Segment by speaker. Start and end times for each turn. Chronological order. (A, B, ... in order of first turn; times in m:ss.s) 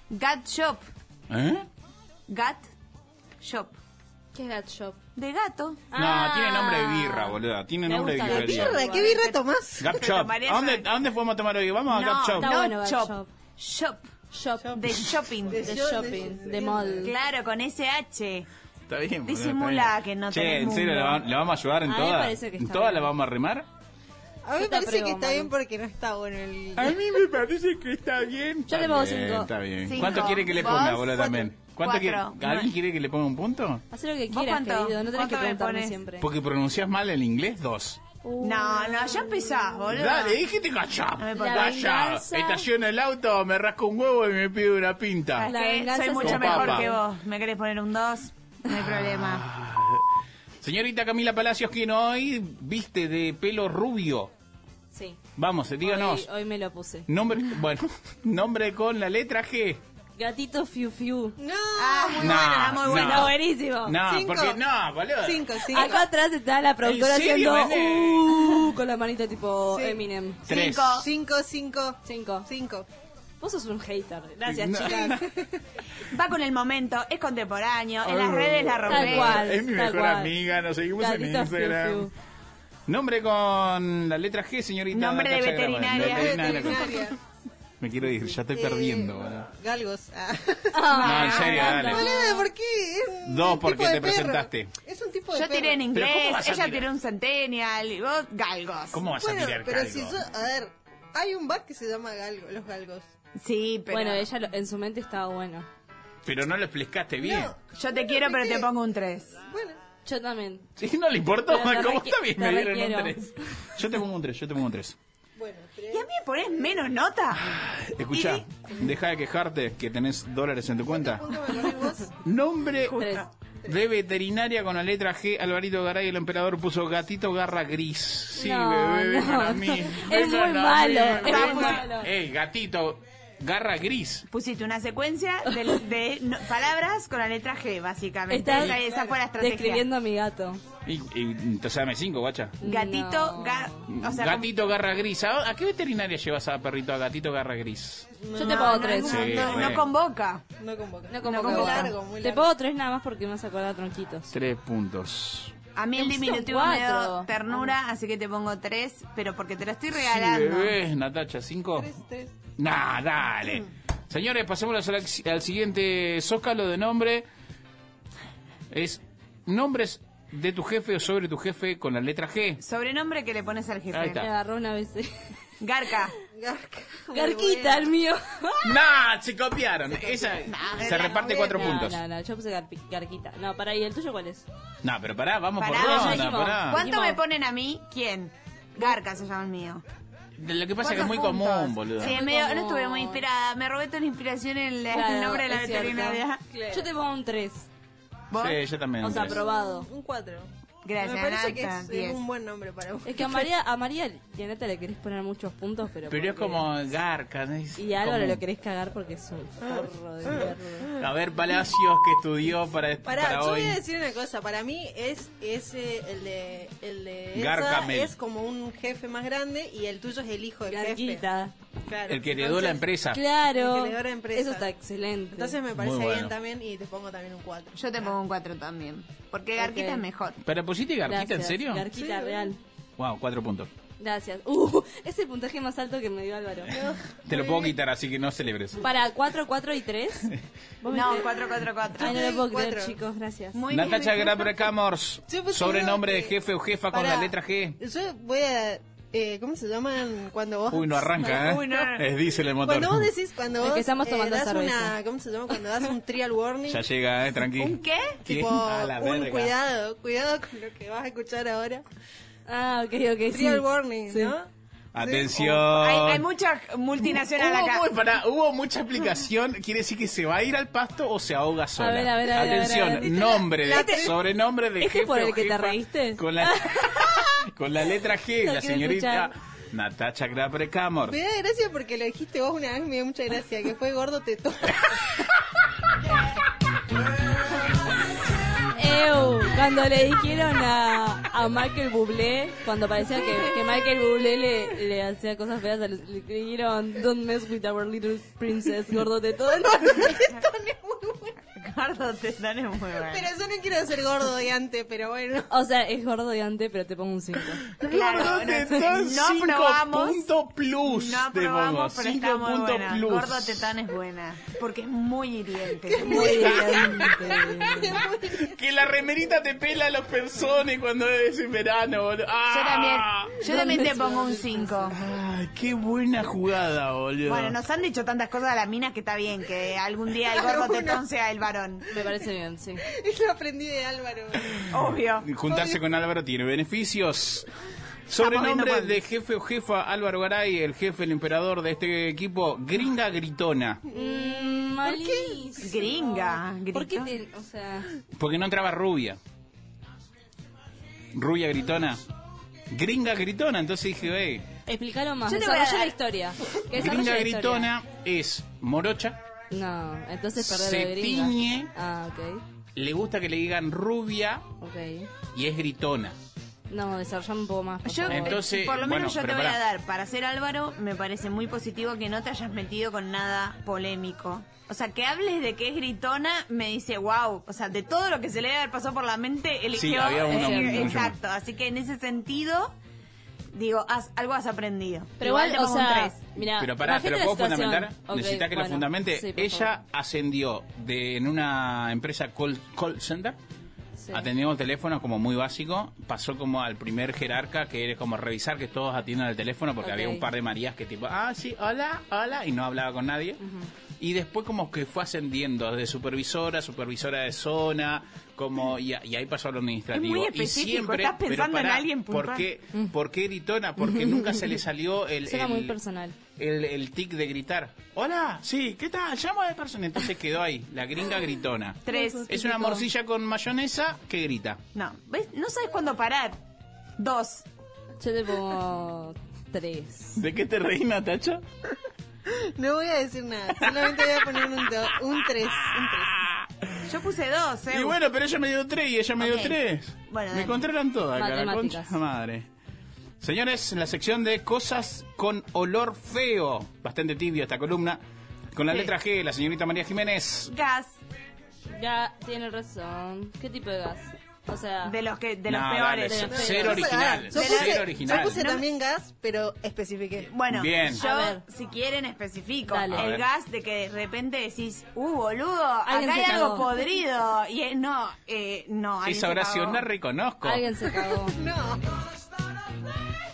0:00.1-0:00.8 A
0:01.3-0:01.7 B
0:02.3-0:02.7 A
0:03.4-0:03.8 A
0:04.3-0:05.0 C
0:05.2-0:05.8 A
0:05.9-0:09.4 C
0:05.9-0:08.8 B
0:08.2-0:10.0 D
0:09.8-0:12.5 B
0:09.9-0:10.9 A
0:11.9-0:14.1 A
0:12.4-0:13.3 C
0:14.3-0:14.8 C
0:14.7-0:15.8 A
0:15.5-0:17.1 D
0:15.6-0:17.1 C
0:17.0-0:18.5 A
0:18.9-0:23.7 B
0:19.3-0:21.2 A
0:21.8-0:23.1 C
0:24.4-0:27.0 D
0:24.6-0:25.5 C
0:26.8-0:33.8 B
0:28.7-0:29.5 C
0:29.8-0:32.7 A
0:30.6-0:31.4 D
0:33.9-0:36.3 C
0:34.3-0:36.0 A
0:36.2-0:38.0 B
0:38.2-0:39.8 C
0:38.4-0:40.4 A
0:39.9-0:45.5 B
0:41.2-0:41.9 A
0:41.4-0:42.7 C
0:45.4-0:49.4 A
0:45.4-0:47.0 C
0:46.2-0:46.8 B
0:48.7-0:50.0 B
0:50.6-0:54.3 B
0:54.9-0:55.2 C
0:55.4-0:56.3 B
0:55.8-0:57.1 C
0:57.1-0:59.8 B
1:00.2-1:01.4 C
1:01.4-1:02.8 D
1:01.8-1:03.3 A
1:02.2-1:05.5 B
1:02.9-1:04.0 C
1:04.0-1:04.6 D
1:05.2-1:06.0 D
1:05.7-1:10.4 C
1:06.8-1:08.6 B
1:09.7-1:10.0 D
1:10.5-1:11.0 B
1:10.5-1:11.1 A
1:11.0-1:12.9 D
1:12.0-1:12.5 C
1:13.4-1:15.2 C
1:14.5-1:15.3 B
1:14.8-1:15.6 D
1:16.1-1:19.5 A
1:18.0-1:22.1 B
1:18.9-1:20.3 C
1:21.0-1:22.1 C
1:22.9-1:27.2 B
1:24.9-1:26.8 A
1:25.9-1:27.2 D
1:27.8-1:29.5 B
1:28.4-1:35.9 D
1:30.7-1:32.4 C
1:31.0-1:31.9 A
1:31.0-1:32.1 B
1:33.2-1:34.7 B
1:35.3-1:39.0 A
1:35.9-1:36.9 B
1:38.9-1:40.2 B
1:39.2-1:43.1 D
1:43.4-1:44.3 A
1:43.9-1:45.7 C
1:46.2-1:47.5 B
1:47.2-1:48.7 D
1:47.7-1:49.4 A
1:49.4-1:49.8 D
1:50.0-1:50.7 C
1:50.8-1:55.0 B
1:51.5-1:53.3 C
1:55.4-1:56.1 D
1:55.9-1:57.5 A
1:57.4-2:01.3 B
1:58.1-1:58.4 A
2:00.8-2:02.2 D
2:02.2-2:03.0 B
2:02.9-2:03.3 A
2:03.0-2:03.3 C
2:03.6-2:14.3 B
2:08.4-2:12.1 C
2:11.2-2:11.9 A
2:14.3-2:19.8 A
2:18.3-2:20.6 C
2:20.8-2:22.6 B
2:22.6-2:23.9 C
2:22.6-2:24.5 A
2:23.9-2:28.2 B
2:28.2-2:29.9 D
2:28.3-2:29.4 C
2:28.4-2:30.4 A
2:29.0-2:29.8 B
2:30.6-2:32.5 D
2:31.1-2:34.3 C
2:31.2-2:31.9 A
2:34.3-2:35.6 B
2:35.8-2:40.8 A
2:36.0-2:37.3 C
2:39.9-2:41.9 B
2:41.8-2:42.3 D
2:42.6-2:47.3 B
2:48.7-2:52.6 B
2:52.6-2:54.3 A
2:53.9-2:54.3 B
2:54.1-2:55.1 C
2:55.6-2:56.1 A
2:56.3-2:57.9 D
2:57.1-2:58.7 C
2:58.6-3:02.0 B
3:00.1-3:00.4 D
3:00.5-3:01.8 A
3:01.3-3:04.4 C
3:04.8-3:06.8 B
3:05.6-3:09.8 A
3:05.7-3:07.2 C
3:10.4-3:12.2 B
3:10.8-3:16.4 A
3:12.0-3:13.2 C
3:14.9-3:17.7 C
3:16.5-3:16.8 D
3:18.3-3:18.6 A
3:18.4-3:19.4 B
3:19.0-3:19.9 C
3:19.1-3:20.5 D
3:20.8-3:22.2 A
3:21.0-3:23.4 D
3:23.0-3:26.7 C
3:26.1-3:28.4 B
3:27.8-3:30.9 C
3:31.0-3:33.8 B
3:33.0-3:41.3 D
3:37.3-3:38.1 B
3:40.7-3:41.5 C
3:41.9-3:42.9 D
3:42.1-3:43.2 B
3:43.1-3:45.6 C
3:43.6-3:44.7 D
3:45.3-3:47.8 D
3:45.8-3:46.3 B
3:47.7-3:50.4 A
3:49.6-3:50.0 C
3:50.4-3:51.8 B
3:51.1-3:52.6 C
3:52.0-3:52.5 D
3:53.0-3:53.7 B
3:54.0-3:56.8 C
3:56.7-3:57.8 D
3:57.3-3:58.8 B
3:58.8-4:00.3 C
4:00.8-4:01.3 C
4:00.9-4:02.2 A
4:02.0-4:03.6 C
4:02.0-4:03.0 D
4:03.5-4:04.4 A
4:03.7-4:07.8 B
4:05.3-4:06.3 D
4:06.9-4:11.9 D
4:10.7-4:13.1 B
4:11.2-4:12.1 A
4:12.6-4:16.9 D
4:13.6-4:14.9 C
4:16.7-4:19.5 B
4:17.6-4:18.2 A
4:18.2-4:21.8 D
4:22.5-4:24.3 C
4:23.3-4:24.5 D
4:24.9-4:26.2 B
4:25.0-4:25.5 D
4:25.4-4:27.9 A
4:27.0-4:41.2 B
4:31.8-4:34.1 C
4:33.0-4:34.2 D
4:34.8-4:37.2 C
4:38.4-4:39.3 C
4:41.1-4:44.9 D
4:48.8-5:00.2 C
4:59.6-5:01.4 D
5:01.5-5:03.3 A
5:03.1-5:05.5 D
5:05.5-5:07.7 C
5:07.8-5:13.6 B
5:07.9-5:10.3 A
5:10.8-5:16.6 A
5:15.9-5:18.6 D
5:16.0-5:17.9 C
5:16.2-5:23.4 B
5:22.5-5:25.0 A
5:23.4-5:24.9 C
5:24.9-5:27.6 B
5:27.3-5:31.9 A
5:30.3-5:31.0 D
5:31.9-5:32.8 C
5:32.8-5:34.7 D
5:34.7-5:35.3 A
5:35.2-5:37.5 B
5:35.5-5:35.8 D
5:38.1-5:43.8 B
5:38.2-5:39.0 A
5:43.9-5:45.8 D
5:43.9-5:47.9 C
5:45.6-5:47.1 A
5:48.1-5:49.2 B
5:51.1-5:52.0 B
5:52.7-5:54.5 B
5:54.7-5:57.7 C
5:55.3-5:56.0 A
5:56.7-5:59.2 B
5:59.5-6:02.4 C
6:00.4-6:01.7 B
6:02.8-6:04.5 B
6:04.6-6:05.1 C
6:05.3-6:06.2 B
6:06.7-6:08.4 C
6:07.8-6:22.8 A
6:08.1-6:09.6 B
6:19.7-6:21.2 B
6:20.3-6:21.0 C
6:23.5-6:26.2 A
6:25.2-6:29.7 C
6:26.4-6:33.4 B
6:34.0-6:34.3 C
6:34.1-6:43.4 B
6:39.8-6:40.2 C
6:44.0-6:55.8 B
6:49.9-6:52.4 A
6:55.3-6:56.2 C
6:56.4-7:04.6 B
7:01.9-7:02.8 A
7:01.9-7:02.8 C
7:04.7-7:06.4 A
7:07.0-7:07.5 A
7:08.0-7:10.2 C
7:10.2-7:11.4 B
7:12.3-7:16.2 D
7:13.6-7:16.9 B
7:16.9-7:18.0 A
7:17.7-7:22.5 B
7:19.2-7:20.6 A
7:21.2-7:22.0 C
7:23.2-7:28.0 B
7:28.5-7:30.5 B
7:30.5-7:31.0 A
7:31.7-7:35.0 C
7:34.8-7:36.8 A
7:35.5-7:38.5 B
7:36.1-7:37.0 C
7:36.3-7:40.3 D
7:37.3-7:38.6 A
7:40.3-7:49.8 A
7:40.5-7:41.0 B
7:40.9-7:41.4 C
7:42.7-7:43.1 C
7:42.9-7:43.2 B
7:45.9-7:46.7 C
7:49.0-7:50.7 B
7:50.4-7:51.4 C
7:51.0-7:52.0 D